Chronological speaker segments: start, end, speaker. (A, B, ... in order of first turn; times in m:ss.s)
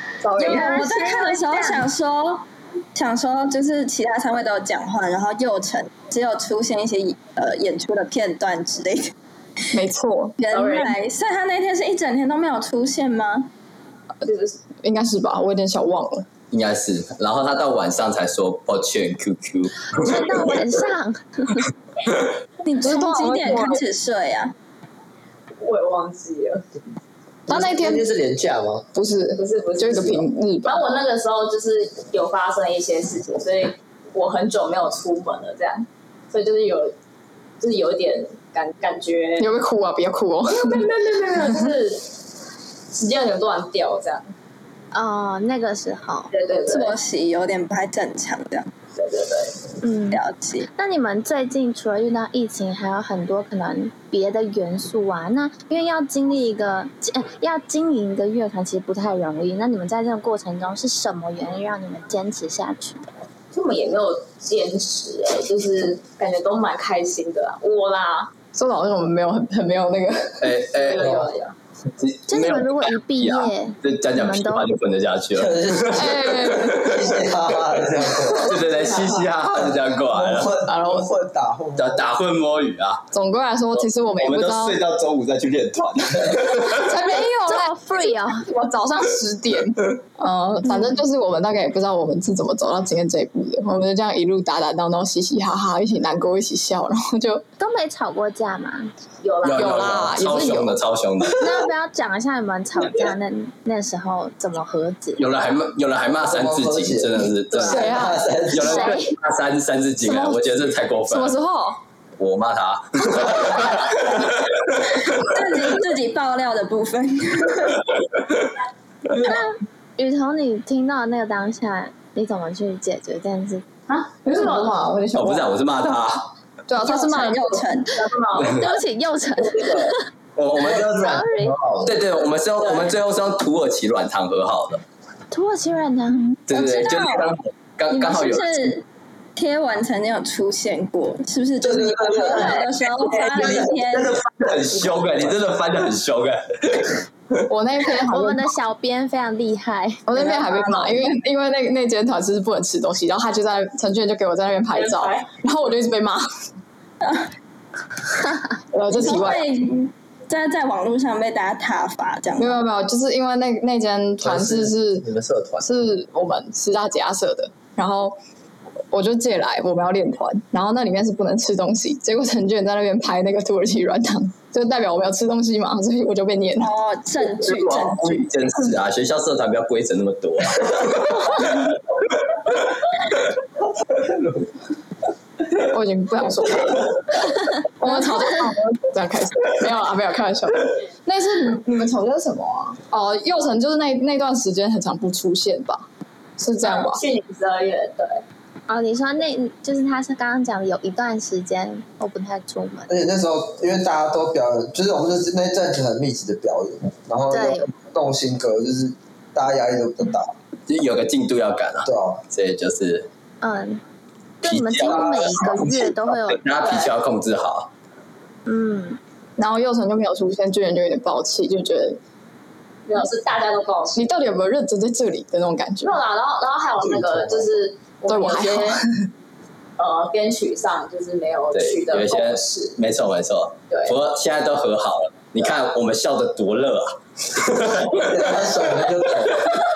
0:00.2-0:00.8 A
0:00.4-0:01.8 B
0:00.4-0:09.1 C
0:09.7-0:10.4 A
0:10.4-0:13.5 C
0:10.5-0:11.0 D
0:14.2-0:14.6 D
0:14.8-0:16.3 A
0:16.5-0:20.5 E
0:19.9-0:21.7 B
0:22.6-0:24.5 C
0:22.8-0:23.8 A
0:25.6-0:26.6 D
0:27.5-0:28.0 A
0:27.5-0:28.9 F
0:28.9-0:30.8 A
0:29.4-0:37.0 D
0:37.6-0:39.5 D
0:39.4-0:40.9 A
0:40.5-0:42.1 D
0:42.9-0:44.3 D
0:44.9-0:46.3 B
0:46.3-0:47.0 D
0:46.7-0:48.7 C
0:49.0-0:49.6 D
0:49.8-0:50.2 B
0:50.1-0:50.7 C
0:50.8-1:03.0 B
1:03.5-1:08.3 D
1:08.5-1:10.6 A
1:10.4-1:11.2 E
1:10.7-1:11.6 D
1:11.0-1:11.3 F
1:12.0-1:17.3 E
1:12.3-1:14.8 B
1:15.3-1:22.1 F
1:15.9-1:16.8 A
1:18.3-1:20.6 E
1:20.6-1:21.1 A
1:21.8-1:23.1 E
1:23.1-1:24.8 A
1:23.8-1:26.9 E
1:26.7-1:27.7 A
1:26.9-1:28.5 B
1:28.3-1:37.4 A
1:37.6-1:38.9 B
1:39.2-1:39.9 D
1:39.4-1:41.7 E
1:39.6-1:40.8 A
1:41.4-1:45.2 B
1:45.2-1:51.4 E
1:46.2-1:48.9 F
1:47.7-1:48.2 A
1:48.6-1:49.2 B
1:50.0-1:50.6 A
1:51.1-1:51.8 A
1:52.2-1:55.3 E
1:55.3-1:57.8 C
1:59.2-2:03.6 B
2:03.9-2:04.8 D
2:04.2-2:05.6 A
2:05.1-2:06.3 E
2:06.7-2:07.6 A
2:06.8-2:08.0 C
2:07.9-2:08.7 D
2:08.4-2:10.0 B
2:10.4-2:11.2 E
2:10.6-2:12.0 F
2:10.9-2:11.6 B
2:11.8-2:14.8 E
2:12.6-2:12.9 D
2:15.3-2:16.3 B
2:16.5-2:18.7 E
2:16.5-2:17.3 C
2:17.9-2:18.8 C
2:19.4-2:24.2 C
2:21.6-2:22.5 F
2:22.2-2:23.6 D
2:23.4-2:27.4 E
2:27.5-2:28.5 A
2:28.1-2:30.2 B
2:30.1-2:36.3 A
2:30.2-2:30.9 C
2:34.7-2:35.3 D
2:37.0-2:37.3 C
2:38.7-2:39.4 A
2:38.9-2:42.6 C
2:42.4-2:45.1 A
2:44.2-2:45.7 F
2:45.6-2:48.2 A
2:48.9-2:56.7 A
2:56.6-2:58.2 C
2:57.2-3:01.7 E
3:05.6-3:15.9 A
3:16.4-3:17.0 A
3:16.6-3:18.2 D
3:18.7-3:22.9 B
3:22.9-3:30.3 F
3:27.3-3:27.7 B
3:30.7-3:33.1 E
3:31.8-3:32.2 F
3:33.4-3:33.8 B
3:34.4-3:36.4 B
3:34.4-3:37.7 E
3:34.8-3:35.9 F
3:36.6-3:36.9 D
3:38.5-3:39.0 B
3:39.4-3:42.0 A
3:42.9-3:44.1 D
3:44.0-3:46.0 A
3:45.8-3:48.8 D
3:46.8-3:47.5 F
3:48.1-3:49.1 A
3:49.8-3:52.8 D
3:51.5-3:58.1 E
3:53.7-3:54.0 D
3:57.7-3:59.6 F